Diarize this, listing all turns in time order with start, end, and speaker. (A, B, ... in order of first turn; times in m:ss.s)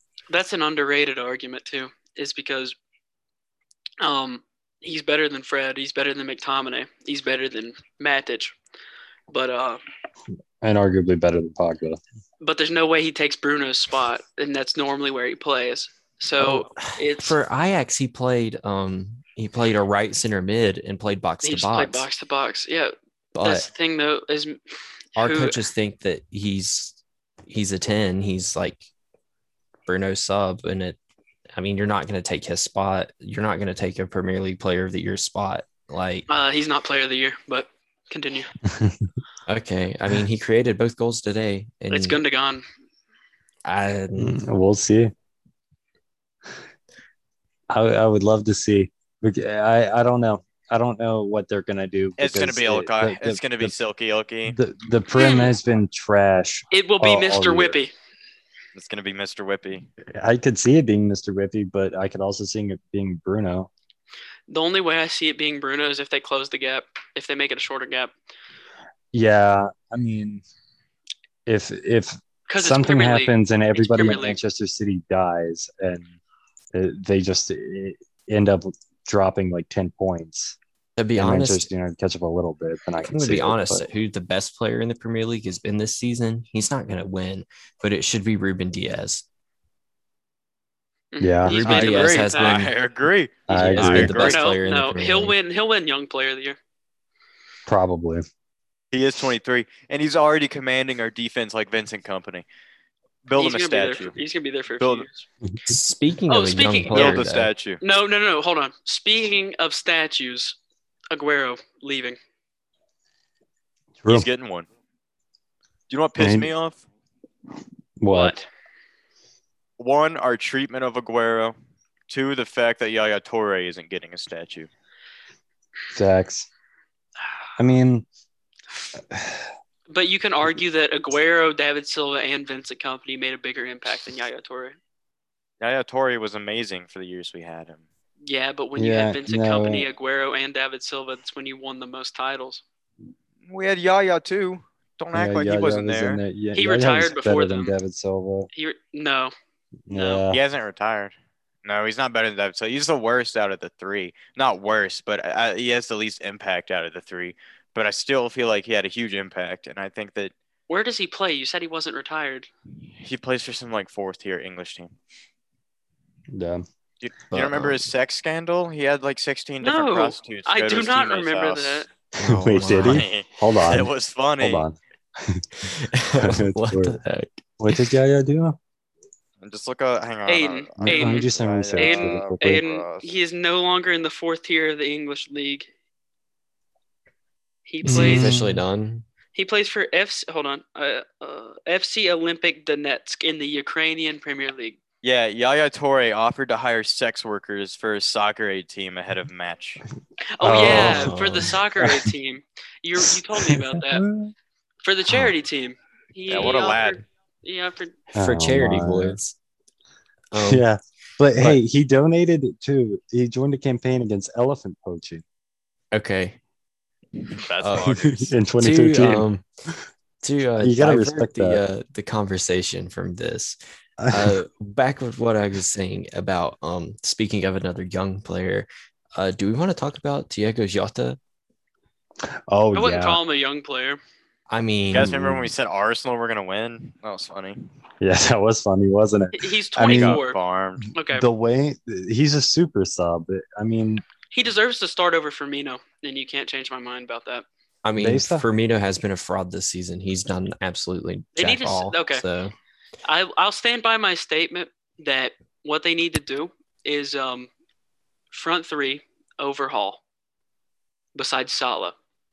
0:00.3-0:02.8 A
0:04.0-0:08.6 A
0:09.3-0:09.8 A
0:10.6-0:12.0 B
0:12.4-0:17.4 A
0:16.4-0:22.1 C
0:21.4-0:22.9 A
0:23.3-0:23.7 C
0:23.4-0:24.6 A
0:25.2-0:25.6 A
0:25.2-0:28.8 C
0:29.9-0:31.0 C
0:31.6-0:36.3 C
0:36.3-0:38.5 A
0:38.7-0:39.1 B
0:39.5-0:42.2 C
0:41.9-0:42.6 A
0:43.6-0:44.4 C
0:44.2-0:45.1 B
0:47.7-0:53.8 B
0:52.2-0:54.6 D
0:54.5-0:57.8 B
0:55.1-0:55.5 A
0:56.7-0:57.9 A
0:58.8-0:59.9 D
1:00.2-1:03.7 B
1:04.5-1:08.1 A
1:09.1-1:10.4 B
1:11.5-1:16.1 B
1:12.5-1:14.4 A
1:16.7-1:20.6 B
1:21.0-1:21.7 C
1:21.2-1:23.9 B
1:23.0-1:29.2 C
1:31.1-1:32.6 A
1:31.2-1:31.6 B
1:31.5-1:32.7 C
1:31.6-1:34.4 D
1:33.5-1:34.3 B
1:33.7-1:35.4 C
1:34.0-1:36.6 A
1:37.7-1:38.2 B
1:38.9-1:42.4 D
1:43.2-1:44.1 D
1:43.4-1:45.3 A
1:44.8-1:45.1 D
1:45.7-1:47.5 C
1:46.3-1:47.2 A
1:46.9-1:47.8 D
1:47.8-1:50.6 A
1:51.1-1:52.2 A
1:54.0-1:54.3 B
1:54.1-1:54.7 D
1:55.9-1:56.8 D
1:56.2-1:56.5 B
1:58.0-1:58.4 B
1:58.1-1:58.4 A
1:59.8-2:01.6 D
2:02.1-2:04.7 D
2:05.9-2:06.5 B
2:07.6-2:08.1 B
2:09.1-2:09.5 B
2:09.9-2:14.8 A
2:15.6-2:17.8 D
2:18.2-2:22.6 A
2:18.8-2:19.9 B
2:23.5-2:26.2 D
2:25.1-2:28.5 B
2:26.6-2:27.8 A
2:28.5-2:29.3 A
2:29.9-2:30.4 B
2:29.9-2:30.2 A
2:30.3-2:40.3 D
2:40.7-2:42.5 A
2:42.9-2:44.9 D
2:46.3-2:46.6 B
2:47.0-2:51.9 D
2:47.3-2:47.8 C
2:49.6-2:51.9 A
2:52.2-2:53.0 C
2:52.2-2:55.4 B
2:52.7-2:54.7 D
2:55.6-2:57.9 C
2:56.2-2:57.0 B
2:57.6-2:58.6 B
2:59.4-3:03.2 D
3:00.3-3:05.7 A
3:00.8-3:02.6 B
3:07.7-3:08.4 A
3:07.8-3:08.6 B
3:07.9-3:09.1 C
3:09.3-3:14.8 A
3:15.0-3:19.8 D
3:20.4-3:24.0 A
3:20.4-3:22.1 B
3:20.6-3:21.6 C
3:23.0-3:24.3 B
3:24.8-3:28.0 A
3:26.3-3:27.0 D
3:28.2-3:29.2 B
3:28.2-3:29.4 C
3:30.3-3:30.6 C
3:30.4-3:35.2 B
3:35.9-3:36.4 C
3:37.3-3:38.4 D
3:37.6-3:37.9 C
3:37.8-3:39.8 B
3:38.6-3:39.4 C
3:40.2-3:43.6 C
3:40.6-3:41.6 B
3:44.0-3:44.4 B
3:44.1-3:51.2 C
3:52.5-3:53.2 B
3:52.7-3:54.0 A
3:54.5-3:55.4 C
3:54.9-3:57.7 D
3:55.0-3:55.4 B
3:58.0-4:00.2 B
3:59.3-4:00.4 A
3:59.8-4:00.9 D
4:00.9-4:01.3 A
4:01.1-4:04.0 B
4:04.3-4:07.4 A
4:07.8-4:12.5 C
4:08.0-4:08.5 B
4:11.4-4:12.2 A
4:13.1-4:17.5 A
4:18.3-4:20.0 A
4:21.2-4:22.0 A